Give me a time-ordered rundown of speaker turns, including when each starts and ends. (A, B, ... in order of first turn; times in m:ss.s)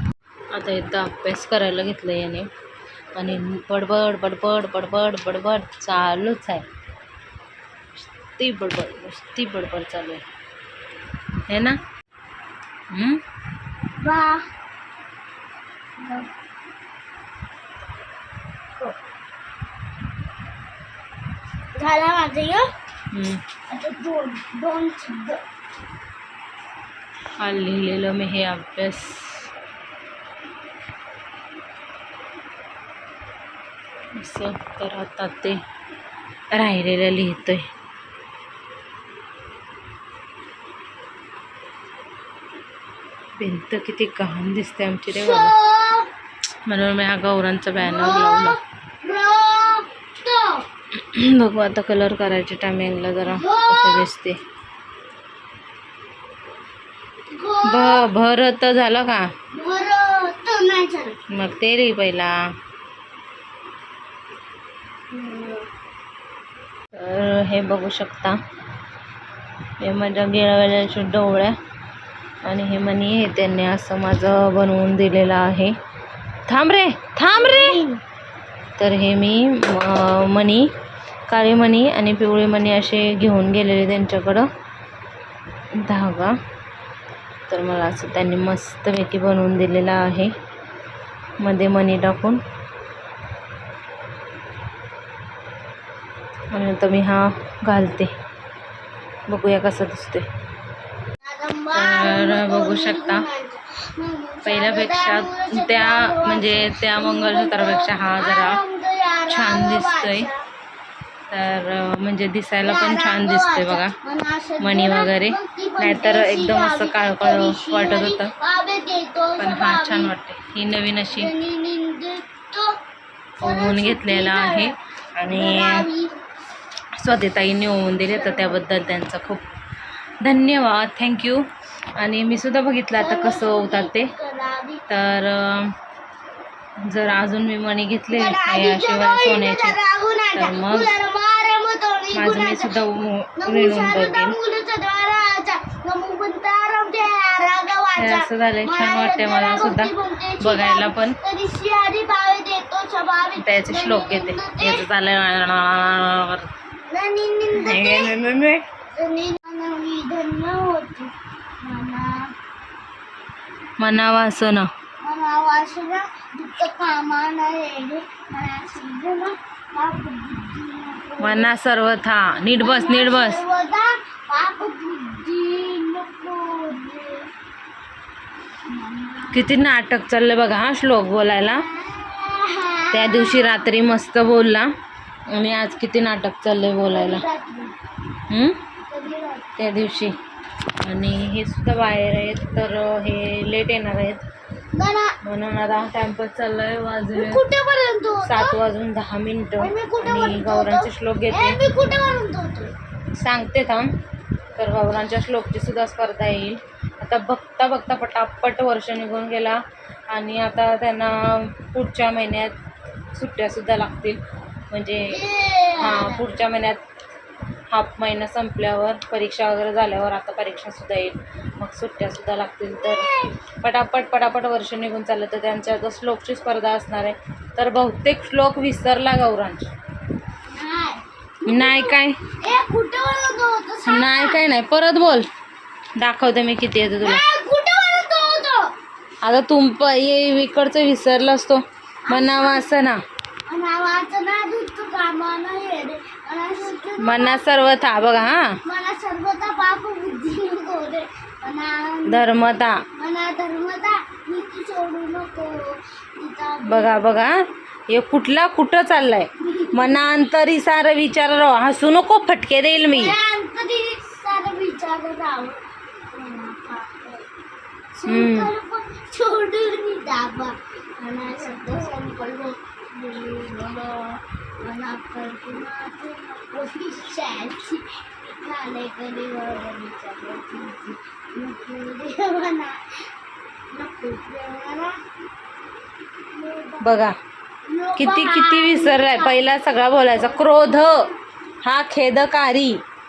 0:00.5-0:02.5 A
0:03.2-0:06.7 A
0:08.0-0:10.2 A
0:11.5-0:11.8 A
0:12.9-0:13.2 A
0:14.0-0:14.5 B
0:16.0-0:16.3 B
0:21.8-0:22.7 B
0:23.1-0:23.4 A
0:23.7-0:25.4 B
0:27.4-0:29.5 A
0:34.2-0:35.6 A
0:36.5-0:37.7 A
0:43.4-0:45.5 A
0:45.1-0:46.1 B
0:46.7-0:48.6 A
0:47.8-0:50.6 B
0:51.1-0:54.4 A
0:53.3-0:54.1 B
0:57.3-0:58.1 B
0:57.6-0:59.3 A
0:59.5-1:01.2 B
1:01.3-1:02.3 A
1:05.1-1:05.7 B
1:06.9-1:08.4 A
1:09.8-1:11.6 A
1:12.4-1:15.8 A
1:16.5-1:17.8 A
1:17.3-1:18.0 B
1:18.8-1:20.7 A
1:21.3-1:24.5 A
1:25.7-1:26.4 A
1:27.5-1:30.3 A
1:31.4-1:32.4 A
1:36.5-1:38.1 A
1:39.3-1:40.3 A
1:41.2-1:50.4 B
1:41.7-1:43.3 A
1:44.4-1:48.6 A
1:49.3-1:50.3 A
1:51.3-1:54.0 A
1:52.6-2:00.1 B
1:54.6-1:58.3 A
1:59.4-2:01.3 A
2:01.2-2:02.8 B
2:03.4-2:04.8 B
2:03.4-2:05.9 A
2:05.3-2:06.1 B
2:07.0-2:09.5 A
2:08.1-2:08.5 B
2:10.2-2:11.5 A
2:12.0-2:14.1 A
2:12.9-2:14.8 B
2:14.9-2:15.8 A
2:16.9-2:19.8 A
2:18.1-2:22.7 B
2:20.3-2:20.9 A
2:22.1-2:24.4 A
2:23.4-2:34.8 B
2:28.0-2:31.2 A
2:33.4-2:36.5 A
2:36.9-2:38.2 B
2:37.5-2:38.6 A
2:38.9-2:42.3 B
2:43.8-2:44.7 A
2:45.0-2:51.6 B
2:51.2-2:53.4 A
2:52.5-2:57.3 B
2:58.7-2:59.5 B
2:59.3-3:01.7 A
3:01.6-3:03.6 B
3:02.9-3:04.7 A
3:05.3-3:07.2 A
3:06.9-3:07.8 B
3:08.3-3:08.6 A
3:08.8-3:09.5 B
3:09.6-3:10.2 A
3:10.8-3:14.2 A
3:14.8-3:15.1 B
3:15.2-3:17.5 A
3:17.1-3:18.6 B
3:18.2-3:21.6 A
3:19.6-3:22.7 B
3:23.2-3:23.9 A
3:24.6-3:32.6 A
3:33.1-3:35.2 A
3:35.1-3:36.3 B
3:35.8-3:36.8 A
3:37.7-3:43.1 A
3:42.7-3:43.4 B
3:43.6-3:49.7 A
3:50.5-3:54.4 B
3:51.5-3:52.2 A
3:53.8-3:55.3 A
3:56.0-3:57.2 A
3:57.0-3:58.7 B
3:59.2-4:03.0 A
4:02.1-4:02.7 B
4:03.5-4:07.5 B
4:07.0-4:08.6 A
4:08.6-4:12.3 B
4:12.1-4:12.8 A
4:12.9-4:17.1 B
4:16.6-4:23.2 A
4:22.9-4:25.6 B
4:26.1-4:27.3 B
4:28.0-4:42.8 B
4:28.1-4:28.5 A
4:43.7-4:45.0 B
4:46.3-4:47.0 B
4:46.8-4:47.2 A
4:47.7-4:49.6 B
4:48.0-4:51.1 A
4:50.1-4:51.1 B
4:51.6-4:52.8 A